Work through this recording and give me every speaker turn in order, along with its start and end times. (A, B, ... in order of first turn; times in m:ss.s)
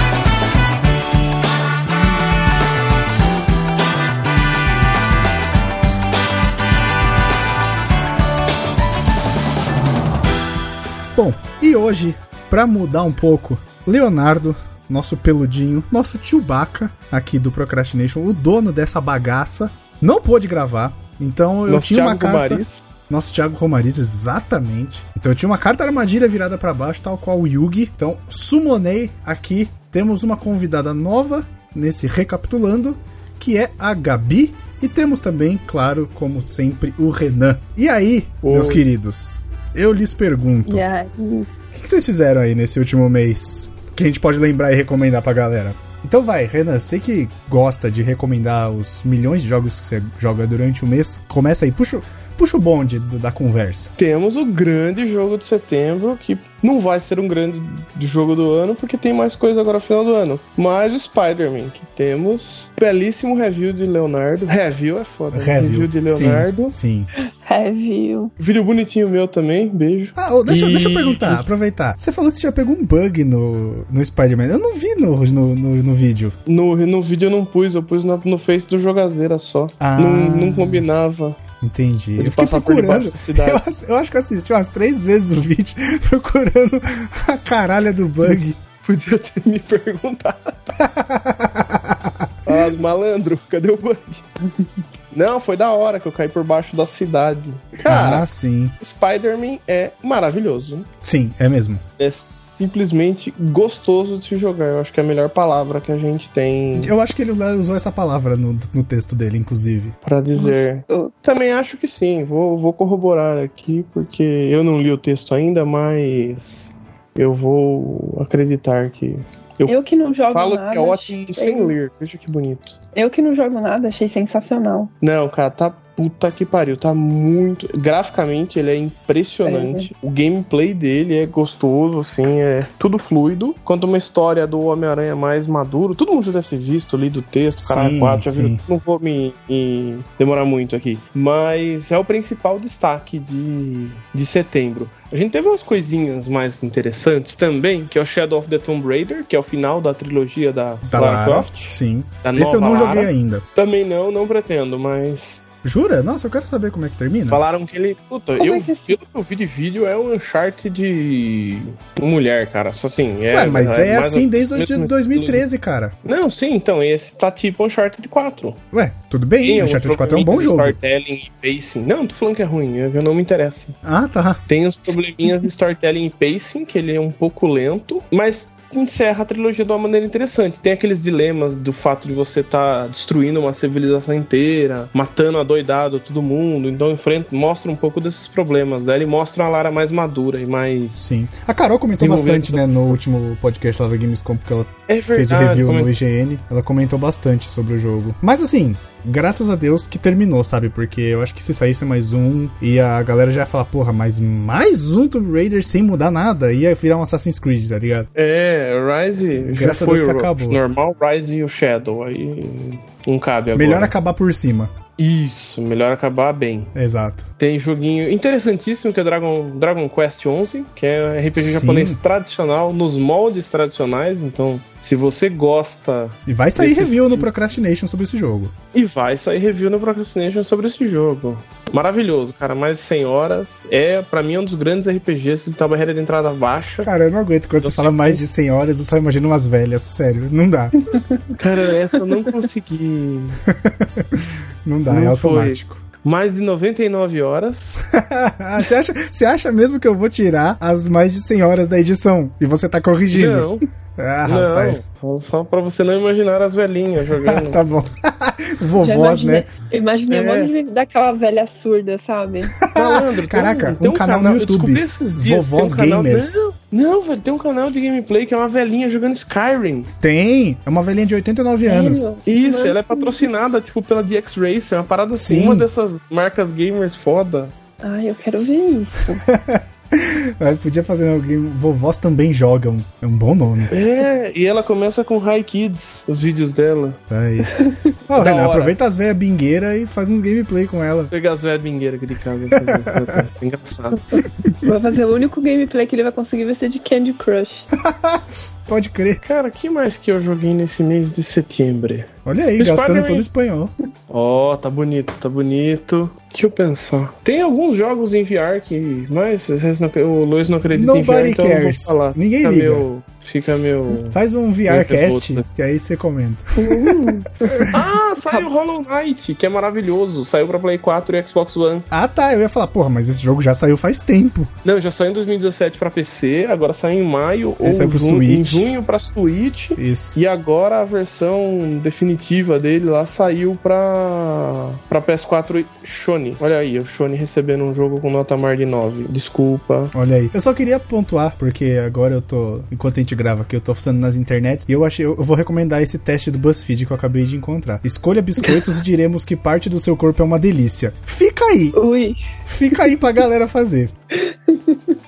0:11.2-0:40.8 A
0:21.7-0:22.9 B
0:38.4-0:38.8 B
0:40.7-0:41.5 C
0:41.7-0:53.9 A
0:54.0-1:06.7 B
1:05.3-1:07.1 A
1:07.2-1:08.3 C
1:08.4-1:11.4 B
1:10.2-1:16.4 A
1:16.5-1:21.4 B
1:19.8-1:20.9 A
1:21.6-1:28.6 A
1:22.2-1:23.6 B
1:28.8-1:30.8 B
1:30.8-1:32.7 A
1:32.5-1:34.2 B
1:35.1-1:38.2 B
1:37.9-1:38.7 A
1:38.8-1:40.9 B
1:41.0-1:41.8 A
1:42.0-1:46.9 B
1:46.8-1:50.0 A
1:50.0-1:59.7 B
1:50.4-1:51.1 C
1:59.7-2:01.7 C
2:00.3-2:02.8 B
2:03.0-2:04.9 C
2:05.0-2:35.4 B
2:09.4-2:09.9 C
2:17.6-2:18.6 A
2:30.9-2:33.4 A
2:35.6-2:37.4 A
2:37.3-2:45.4 B
2:38.4-2:39.0 C
2:43.3-2:45.9 A
2:46.0-2:48.6 B
2:48.7-2:50.8 A
2:49.4-2:53.8 B
2:53.8-2:54.4 A
2:54.5-3:11.0 B
3:11.0-3:28.1 A
3:12.0-3:13.0 B
3:14.9-3:15.9 B
3:28.2-3:33.9 B
3:29.4-3:30.6 A
3:33.6-3:34.7 A
3:35.0-3:36.7 B
3:36.8-3:37.3 A
3:37.4-3:47.3 B
3:41.4-3:42.0 A
3:46.3-3:48.5 A
3:48.7-3:56.9 B
3:56.8-4:00.8 A
3:57.6-3:58.2 B
4:00.8-4:01.4 C
4:01.4-4:03.4 B
4:01.9-4:02.2 C
4:03.5-4:05.8 A
4:04.9-4:07.8 B
4:07.9-4:14.8 A
4:13.1-4:13.6 B
4:14.3-4:17.6 B
4:17.2-4:19.5 A
4:18.8-4:22.6 C
4:20.1-4:20.5 B
4:22.6-4:26.4 A
4:22.7-4:29.9 B
4:30.0-4:32.1 A
4:31.7-4:33.3 C
4:32.3-4:37.5 B
4:35.1-4:35.7 A
4:37.8-4:39.2 C
4:39.0-4:43.8 A
4:43.7-4:47.0 B
4:47.1-4:47.6 A
4:47.5-4:47.9 C
4:48.1-4:51.1 A
4:48.2-4:48.8 B
4:51.1-4:54.2 B
4:52.5-4:53.2 A
4:54.1-4:57.7 C
4:57.8-4:59.2 A
4:59.2-5:03.3 B
5:02.3-5:03.7 A
5:04.1-5:15.4 B
5:10.7-5:12.9 A
5:14.1-5:17.8 A
5:16.6-5:18.5 C
5:17.6-5:21.9 B
5:21.9-5:24.5 A
5:24.6-5:39.9 B
5:27.6-5:28.7 A
5:29.8-5:30.1 A
5:39.9-5:51.8 A
5:51.7-5:52.2 C
5:52.5-5:53.9 A
5:54.1-5:55.0 C